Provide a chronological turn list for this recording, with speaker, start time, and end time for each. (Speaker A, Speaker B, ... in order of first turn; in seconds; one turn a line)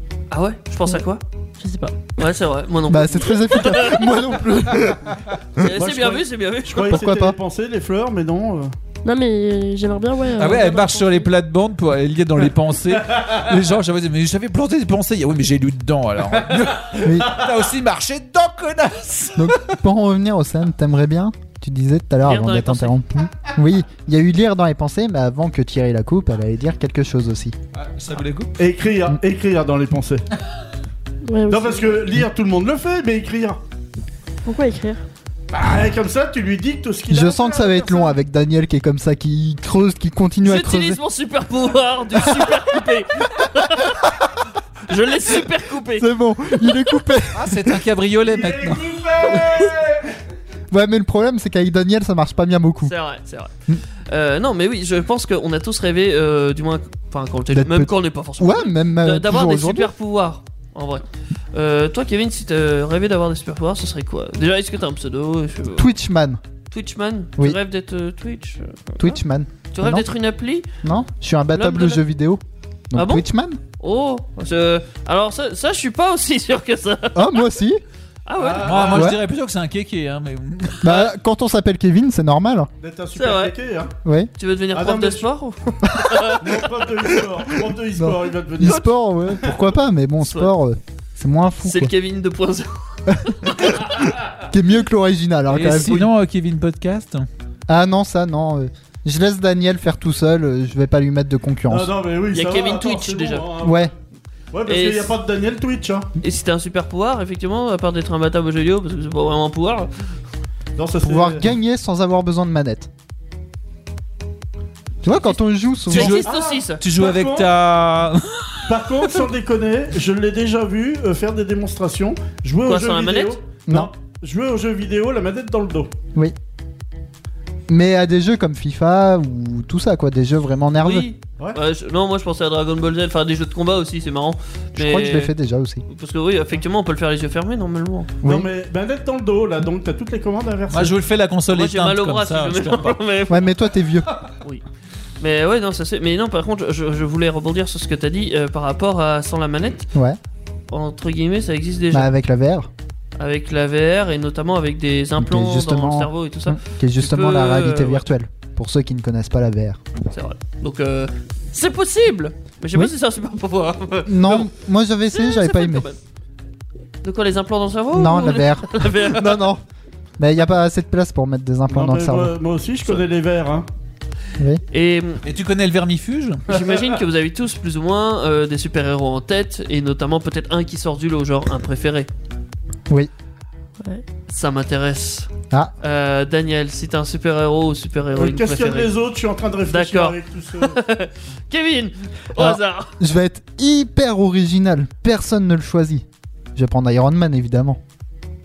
Speaker A: 0.3-1.2
Speaker B: 1.6-2.1
Speaker A: 2.2-4.1
Speaker C: 2.9-5.2
Speaker A: 5.6-7.0
Speaker D: 5.6-8.7
Speaker C: 6.9-7.4
Speaker B: 9.0-11.3
Speaker E: 10.4-19.8
Speaker C: 17.0-17.4
Speaker C: 19.4-27.6
Speaker A: 22.2-23.0
Speaker E: 27.7-28.6
Speaker D: 28.6-30.2
Speaker B: 31.3-32.0
Speaker D: 31.5-33.6
Speaker B: 34.5-35.0
Speaker D: 35.5-38.2
Speaker C: 37.1-41.0
Speaker A: 40.4-44.0
Speaker A: 44.9-46.1
Speaker C: 46.0-47.6
Speaker E: 47.3-49.4
Speaker D: 48.2-50.1
Speaker C: 50.7-52.9
Speaker A: 52.8-53.5
Speaker A: 54.1-65.9
Speaker C: 57.5-59.9
Speaker C: 65.8-66.4
Speaker A: 66.7-69.2
Speaker C: 69.0-70.1
Speaker A: 69.7-70.7
Speaker C: 70.8-73.6
Speaker A: 71.5-72.0
Speaker A: 73.0-73.3
Speaker A: 73.8-77.4
Speaker C: 77.2-77.8
Speaker A: 78.3-79.0
Speaker D: 78.4-79.1
Speaker E: 78.6-81.0
Speaker C: 78.9-79.2
Speaker C: 80.8-82.7
Speaker D: 82.8-83.9
Speaker A: 83.2-83.5
Speaker C: 84.0-84.3
Speaker A: 84.4-86.7
Speaker D: 84.7-85.3
Speaker D: 86.4-89.5
Speaker C: 88.0-91.9
Speaker A: 90.2-90.5
Speaker A: 91.7-94.0
Speaker C: 93.1-96.0
Speaker E: 95.5-97.3
Speaker A: 95.7-96.1
Speaker C: 97.7-101.9
Speaker D: 101.7-103.9
Speaker A: 102.3-103.5
Speaker C: 103.6-103.9
Speaker D: 104.5-106.1
Speaker A: 104.7-105.2
Speaker A: 106.2-109.9
Speaker D: 110.8-111.5
Speaker C: 111.0-112.9
Speaker C: 115.0-116.2
Speaker A: 115.0-116.8
Speaker E: 115.9-116.2
Speaker D: 116.1-117.5
Speaker E: 116.8-119.2
Speaker D: 118.7-125.9
Speaker A: 122.6-123.4
Speaker C: 127.7-131.1
Speaker A: 130.8-135.3
Speaker C: 134.8-135.8
Speaker A: 135.9-138.1
Speaker C: 138.2-138.5
Speaker D: 138.2-140.9
Speaker E: 140.7-143.0
Speaker A: 141.5-143.5
Speaker C: 143.3-144.2
Speaker A: 145.2-149.9
Speaker A: 150.7-152.1
Speaker C: 151.9-152.7
Speaker A: 153.2-158.1
Speaker C: 155.2-159.8
Speaker A: 160.1-164.5
Speaker C: 164.1-165.9
Speaker A: 165.1-166.0
Speaker A: 167.0-169.5
Speaker C: 167.9-169.6
Speaker C: 170.2-172.3
Speaker D: 171.7-173.7
Speaker A: 174.7-175.2
Speaker E: 175.2-176.4
Speaker A: 176.5-182.1
Speaker D: 176.5-176.9
Speaker A: 184.3-188.9
Speaker D: 188.1-190.8
Speaker A: 189.7-193.0
Speaker C: 192.3-197.8